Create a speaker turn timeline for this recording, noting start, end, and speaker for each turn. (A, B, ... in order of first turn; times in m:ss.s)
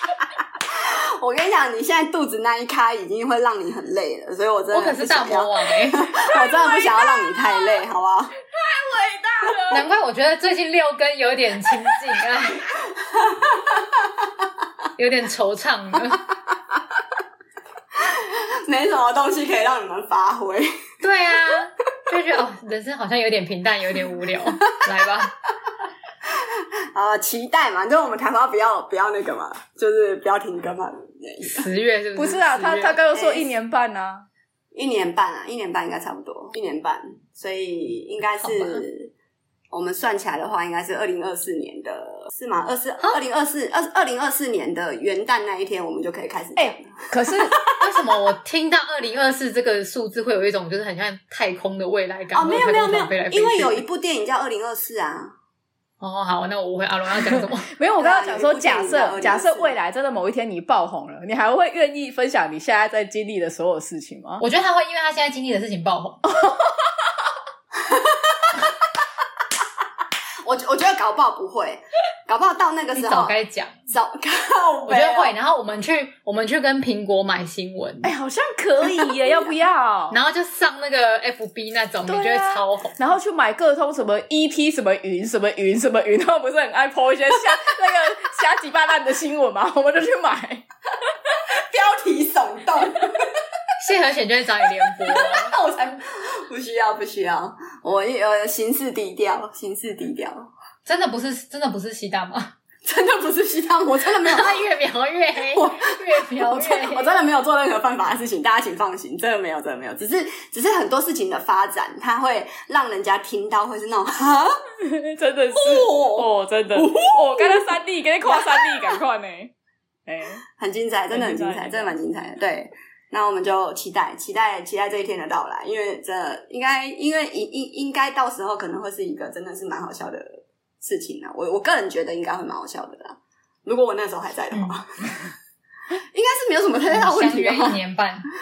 0:00.8-0:08.4 A
0:04.7-0:06.1 B
0:06.3-0:07.8 C
0:08.4-0:09.9 C
0:09.7-0:12.7 B
0:13.1-0:13.8 A
0:15.0-0:16.2 B
0:18.0-0:20.7 A
0:21.0-0:25.3 B
0:26.3-0:31.6 A
0:31.5-0:33.0 B
0:32.2-0:34.3 C
0:33.1-0:33.5 A
0:34.7-0:39.1 A
0:38.4-0:38.8 B
0:39.7-0:47.8 A
0:46.6-0:47.6 C
0:47.8-0:53.8 B
0:52.3-0:55.3 A
0:56.0-0:57.7 B
0:57.3-1:04.4 C
0:58.0-0:59.8 A
1:04.4-1:06.2 B
1:06.4-1:06.7 C
1:07.9-1:08.6 A
1:10.4-1:13.4 A
1:13.0-1:13.8 B
1:13.9-1:15.3 A
1:14.9-1:18.1 B
1:18.0-1:20.2 C
1:20.1-1:23.0 B
1:22.1-1:30.6 C
1:31.7-1:33.2 A
1:33.8-1:35.5 B
1:35.0-1:40.5 A
1:40.9-1:42.5 B
1:42.8-1:44.6 A
1:44.2-1:47.2 B
1:45.5-1:54.6 A
1:54.8-1:59.5 C
1:55.5-1:59.0 A
2:00.1-2:00.4 C
2:00.6-2:15.2 A
2:01.1-2:02.0 C
2:14.5-2:14.8 B
2:16.1-2:17.8 A
2:16.9-2:18.3 B